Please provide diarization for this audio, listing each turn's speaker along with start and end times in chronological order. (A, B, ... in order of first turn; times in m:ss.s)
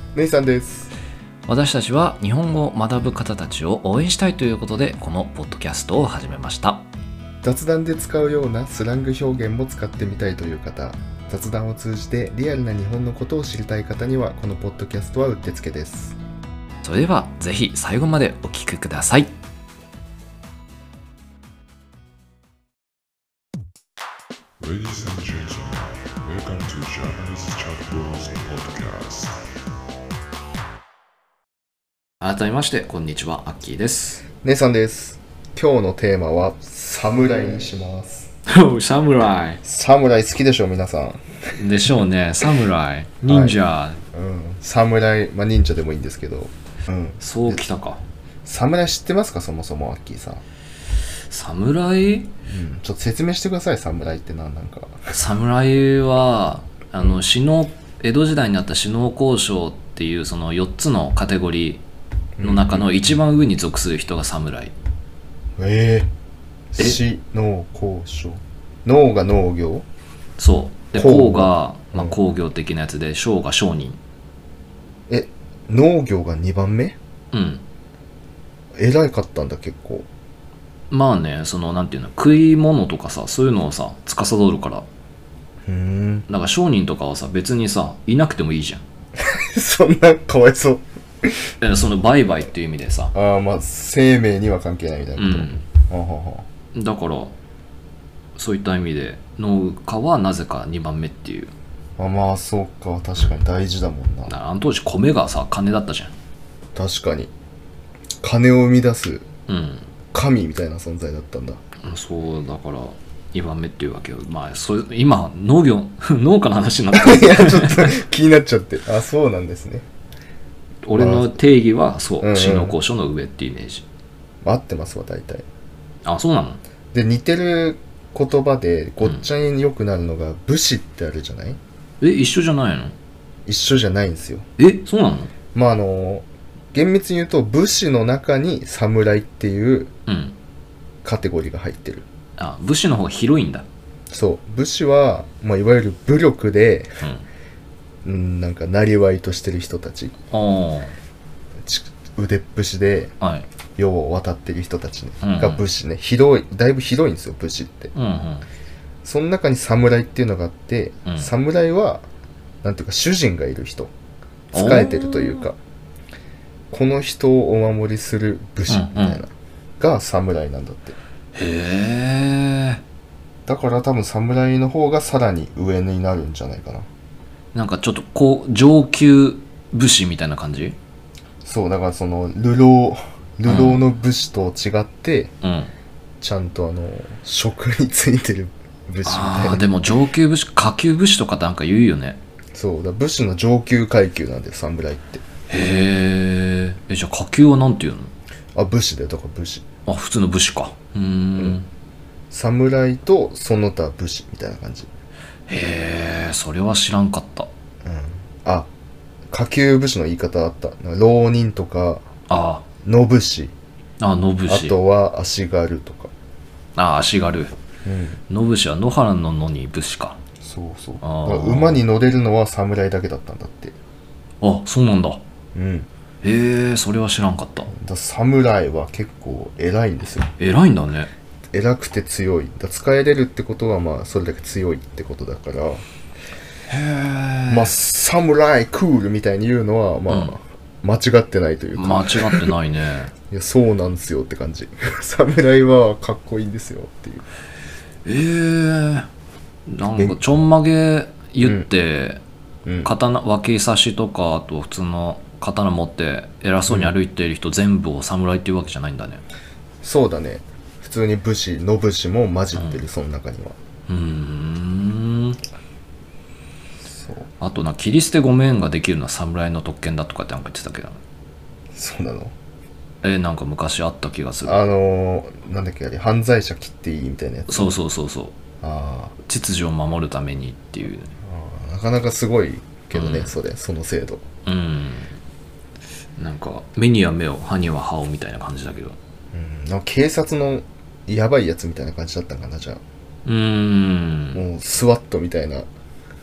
0:00.2-0:00.9 A
0:01.5-0:06.9 B
0:07.4-0:16.2 A
0:16.8-0:19.3 B
0:24.6-0:29.4 C
0:32.2-0:34.2 B
0:34.4-0:38.3 A
0:38.5-0:39.6 B
0:39.6-0:41.4 A
0:41.6-0:44.0 B
0:43.3-0:43.6 A
0:44.1-0:47.6 A
0:47.2-0:48.0 B
0:48.4-0:50.4 A
0:51.3-0:52.3 B
0:52.5-0:55.1 A
0:55.1-1:01.8 B
1:02.4-1:02.9 A
1:02.4-1:04.7 B
1:05.6-1:06.1 A
1:06.7-1:09.9 A
1:10.4-1:14.0 B
1:10.9-1:12.2 A
1:15.1-1:17.0 A
1:17.3-1:17.6 B
1:18.8-1:20.1 A
1:20.9-1:24.9 B
1:25.7-1:26.3 A
1:26.3-1:28.8 B
1:29.2-1:31.3 A
1:31.6-1:33.1 B
1:33.1-1:36.4 A
1:35.2-1:35.7 B
1:36.7-1:37.4 B
1:38.4-1:41.5 B
1:42.0-1:44.3 A
1:44.3-1:46.1 B
1:46.8-1:47.3 A
1:48.2-1:49.3 A
1:49.5-1:49.9 B
1:50.1-1:51.6 A
1:51.8-1:58.0 B
1:56.9-1:59.9 A
2:00.8-2:03.9 B
2:00.9-2:01.4 A
2:02.2-2:02.8 A
2:04.4-2:05.5 A
2:06.0-2:06.6 B
2:06.9-2:11.6 A
2:12.0-2:13.0 B
2:13.5-2:14.5 A
2:14.6-2:15.3 B
2:15.5-2:19.9 A
2:20.1-2:20.4 B
2:21.0-2:22.0 A
2:22.4-2:23.7 B
2:24.1-2:26.9 A
2:28.0-2:30.1 A
2:30.3-2:31.0 B
2:31.6-2:33.1 A
2:33.2-2:33.5 B
2:33.8-2:37.9 A
2:35.2-2:35.6 B
2:38.0-2:38.5 B
2:39.0-2:42.0 A
2:41.1-2:41.3 B
2:42.6-2:43.9 A
2:44.5-2:45.6 A
2:44.5-2:45.5 B
2:46.7-2:51.0 A
2:48.7-2:49.2 B
2:51.4-2:52.8 B
2:53.5-2:56.9 A
2:57.5-3:00.8 B
3:01.4-3:05.3 A
3:03.4-3:03.8 B
3:05.4-3:05.7 B
3:06.2-3:09.8 A
3:09.0-3:12.2 B
3:12.6-3:15.2 A
3:15.5-3:18.1 B
3:18.6-3:19.6 A
3:19.9-3:21.7 B
3:22.3-3:24.9 A
3:25.5-3:27.5 B
3:27.8-3:28.7 A
3:29.3-3:32.0 A
3:32.3-3:32.6 B
3:32.8-3:33.5 A
3:34.0-3:34.8 B
3:34.5-3:36.1 A
3:36.8-3:37.5 B
3:37.8-3:38.2 A
3:38.3-3:40.2 B
3:40.4-3:43.8 A
3:41.0-3:41.8 B
3:44.4-3:45.2 B
3:45.6-3:45.9 A
3:46.2-3:47.7 B
3:47.7-3:50.3 A
3:50.4-3:51.1 B
3:51.5-3:55.8 A
3:56.7-3:57.7 B
3:57.5-4:02.4 A
4:00.1-4:00.3 B
4:01.8-4:03.1 B
4:03.3-4:07.2 A
4:08.0-4:09.1 B
4:09.7-4:12.2 B
4:09.9-4:10.2 A
4:11.4-4:11.7 A
4:12.7-4:12.9 A
4:12.8-4:19.2 B
4:16.7-4:17.0 A
4:19.8-4:23.6 A
4:22.6-4:22.8 B
4:23.9-4:25.4 B
4:26.9-4:27.3 A
4:27.4-4:31.0 B
4:31.7-4:32.3 A
4:33.0-4:34.7 B
4:34.4-4:37.7 A
4:37.5-4:38.3 B
4:38.6-4:39.1 A
4:39.2-4:41.1 B
4:41.2-4:44.2 A
4:42.9-4:43.3 B
4:44.5-4:45.2 B
4:46.2-4:49.0 B
4:49.3-4:52.8 A
4:53.3-4:54.4 B
4:54.3-4:55.7 A